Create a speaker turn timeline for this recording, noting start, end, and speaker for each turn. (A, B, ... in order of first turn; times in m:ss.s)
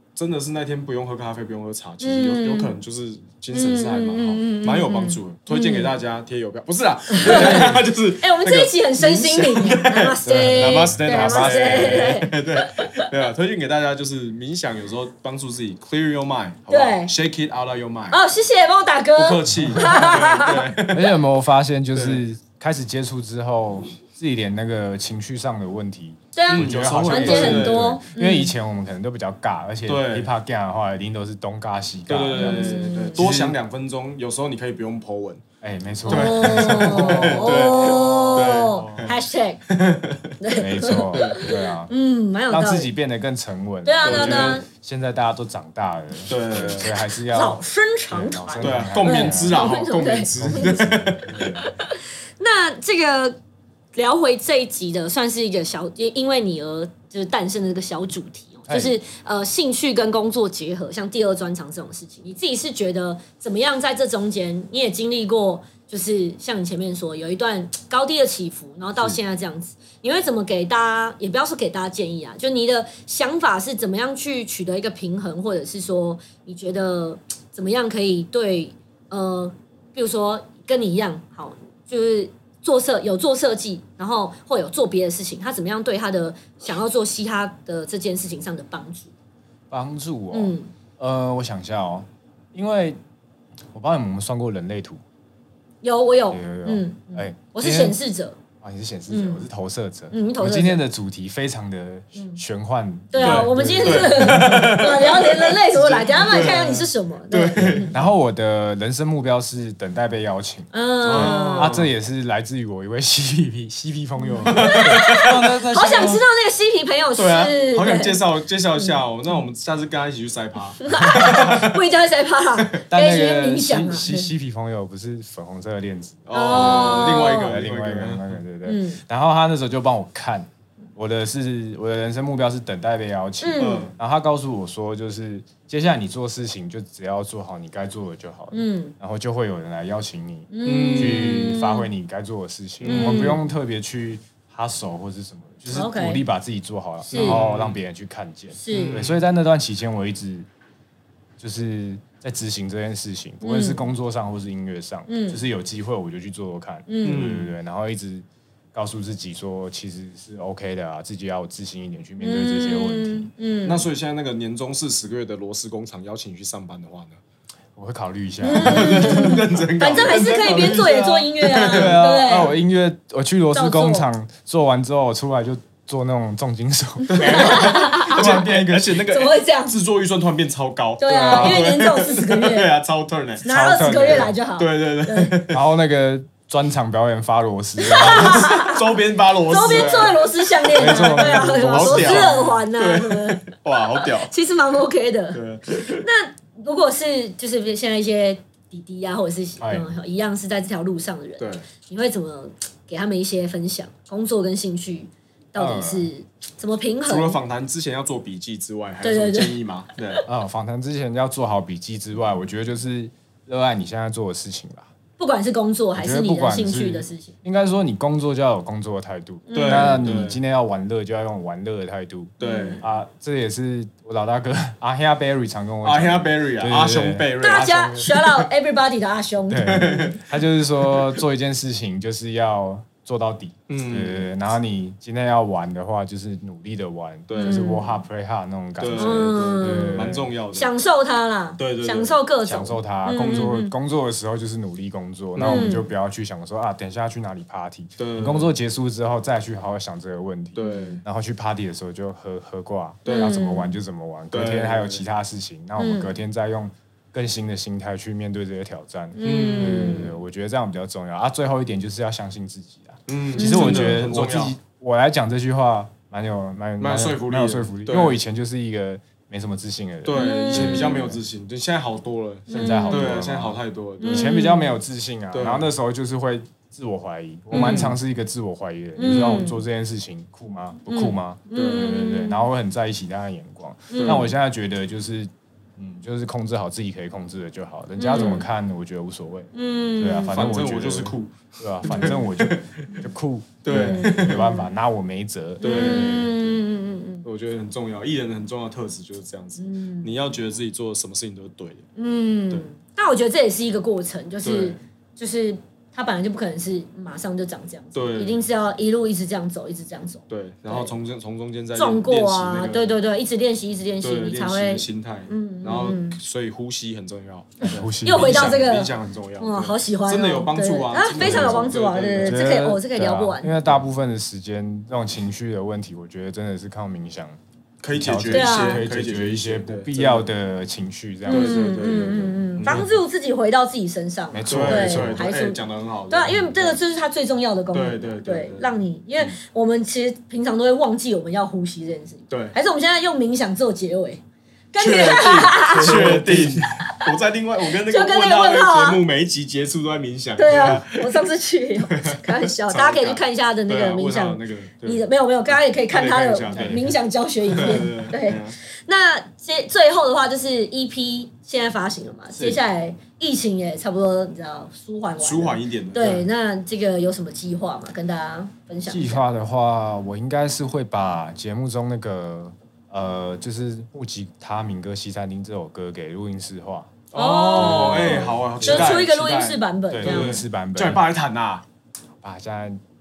0:00.2-0:18.2 A
0:02.0-0:02.7 B
0:03.5-0:05.9 B
0:07.1-0:13.1 B
0:10.2-0:12.2 C
0:16.7-0:17.1 B
0:18.1-0:20.6 B
0:19.2-0:21.2 A
0:19.5-0:19.9 C
0:20.9-0:33.6 C
0:21.9-0:22.2 A
0:26.3-0:28.5 B
0:26.5-0:28.0 A
0:29.9-0:30.3 A
0:32.1-0:35.4 A
0:32.3-0:33.2 B
0:35.6-0:37.8 C
0:36.0-0:39.6 B
0:36.1-0:39.1 A
0:38.3-0:39.1 C
0:39.7-0:40.3 A
0:40.4-0:42.9 B
0:40.6-0:41.9 C
0:42.5-0:49.7 C
0:43.8-0:44.6 B
0:44.0-0:44.6 A
0:46.3-0:47.0 A
0:47.3-0:50.9 B
0:48.6-0:51.5 A
0:50.3-0:51.7 C
0:51.4-0:53.4 B
0:53.9-1:29.1 B
0:58.7-0:59.0 C
1:29.7-1:33.0 C
1:30.3-1:30.7 B
1:33.7-1:35.0 C
1:35.8-1:38.4 B
1:36.3-1:38.0 C
1:38.6-1:44.9 C
1:39.1-1:39.4 B
1:40.1-1:40.8 B
1:43.1-1:47.9 B
1:43.2-1:48.1 A
1:47.9-1:56.2 C
1:50.7-1:51.8 B
1:51.0-1:51.9 A
1:54.2-1:58.2 B
1:54.4-1:55.5 A
1:57.2-2:01.8 A
2:00.8-2:04.3 B
2:02.9-2:30.5 C
2:06.2-2:08.4 A
2:06.3-2:07.5 B
2:08.6-2:09.0 B
2:13.4-2:13.9 B
2:13.6-2:13.9 A
2:18.5-2:18.9 B
2:20.5-2:21.9 B
2:20.6-2:21.6 A
2:22.8-2:23.3 A
2:22.8-2:23.4 B
2:25.7-2:26.2 B
2:27.1-2:27.4 B
2:27.1-2:27.8 A
2:28.6-2:29.0 B
2:28.7-2:29.2 A
2:31.4-2:43.3 C
2:33.4-2:33.8 B
2:35.1-2:35.4 B
2:36.9-2:37.3 B
2:37.0-2:37.5 A
2:42.2-2:43.8 B
2:43.6-2:47.2 A
2:47.8-2:49.6 C
2:48.4-2:52.6 B
2:48.6-2:52.0 A
2:51.6-2:59.0 C
2:53.5-2:54.1 B
2:57.1-3:05.6 A
2:57.1-2:58.5 B
2:59.0-2:59.8 B
3:01.0-3:02.7 B
3:01.1-3:01.7 C
3:03.4-3:05.4 B
3:03.4-3:04.3 C
3:05.5-3:08.6 C
3:07.8-3:27.4 B
3:07.9-3:14.3 A
3:10.7-3:12.6 C
3:15.3-3:16.0 A
3:19.6-3:19.9 C
3:21.4-3:21.6 A
3:25.6-3:26.1 C
3:27.0-3:30.2 A
3:29.0-3:29.6 B
3:30.3-3:34.9 C
3:35.2-3:37.3 B
3:36.0-3:47.3 C
3:39.5-3:40.0 B
3:39.5-3:40.4 A
3:42.4-3:42.8 A
3:42.4-3:42.8 B
3:45.8-3:48.5 A
3:47.4-3:50.2 B
3:49.5-4:00.3 C
3:49.6-3:50.2 A
3:50.8-3:51.2 A
3:53.7-3:54.3 A
3:57.3-3:57.9 A
3:57.4-3:57.9 B
3:58.8-4:00.7 A
3:58.9-4:03.7 B
4:01.6-4:02.2 A
4:02.4-4:31.2 C
4:05.4-4:05.7 A
4:05.4-4:05.9 B
4:08.0-4:08.5 A
4:10.5-4:11.0 A
4:10.6-4:11.0 B
4:13.0-4:13.4 A
4:13.1-4:13.7 B
4:14.3-4:15.0 A
4:15.8-4:16.1 B
4:19.2-4:20.1 B
4:19.2-4:20.1 A
4:23.1-4:24.5 A
4:23.4-4:24.0 B
4:26.8-4:28.2 A
4:30.0-4:34.4 A
4:30.1-4:31.0 B
4:32.5-4:33.1 B
4:32.5-4:56.3 C
4:34.0-4:34.7 B
4:35.3-4:35.7 A
4:37.5-4:38.0 A
4:39.0-4:39.6 B
4:39.1-4:39.5 A
4:40.9-4:42.4 B
4:41.5-4:42.0 A
4:43.9-4:44.3 B
4:43.9-4:44.3 A
4:48.0-4:48.4 B
4:48.1-4:48.4 A
4:49.5-4:50.4 B
4:50.3-4:53.0 A
4:53.6-4:54.5 A
4:53.7-4:54.6 B
4:55.6-4:57.2 B
4:55.6-4:56.4 A
4:57.2-5:01.8 A
4:59.6-5:00.1 B
5:02.0-5:10.9 B
5:04.4-5:04.8 A
5:07.9-5:08.4 A
5:10.3-5:12.9 A
5:11.7-5:16.2 B
5:14.0-5:22.4 A
5:17.6-5:23.5 B
5:17.6-5:18.6 C
5:21.2-5:21.7 C
5:22.2-5:27.4 C
5:27.8-5:30.3 A
5:27.9-5:32.1 C
5:28.3-5:28.8 B
5:31.3-5:44.2 B
5:31.3-5:32.8 A
5:32.6-5:33.0 C
5:34.3-5:35.3 C
5:34.5-5:36.8 A
5:37.7-5:38.8 A
5:42.3-5:42.5 A
5:44.7-5:46.1 B
5:44.8-5:51.2 A
5:45.7-5:46.6 C
5:46.8-5:47.1 B
5:47.8-5:49.0 B
5:50.4-6:09.2 B
5:51.9-5:55.0 A
5:55.8-5:58.5 A
6:02.4-6:02.6 A
6:05.2-6:06.3 A
6:08.9-6:16.9 C
6:17.1-6:21.6 A
6:17.1-6:20.4 B
6:17.5-6:19.0 C
6:19.9-6:21.0 C
6:22.2-6:22.8 C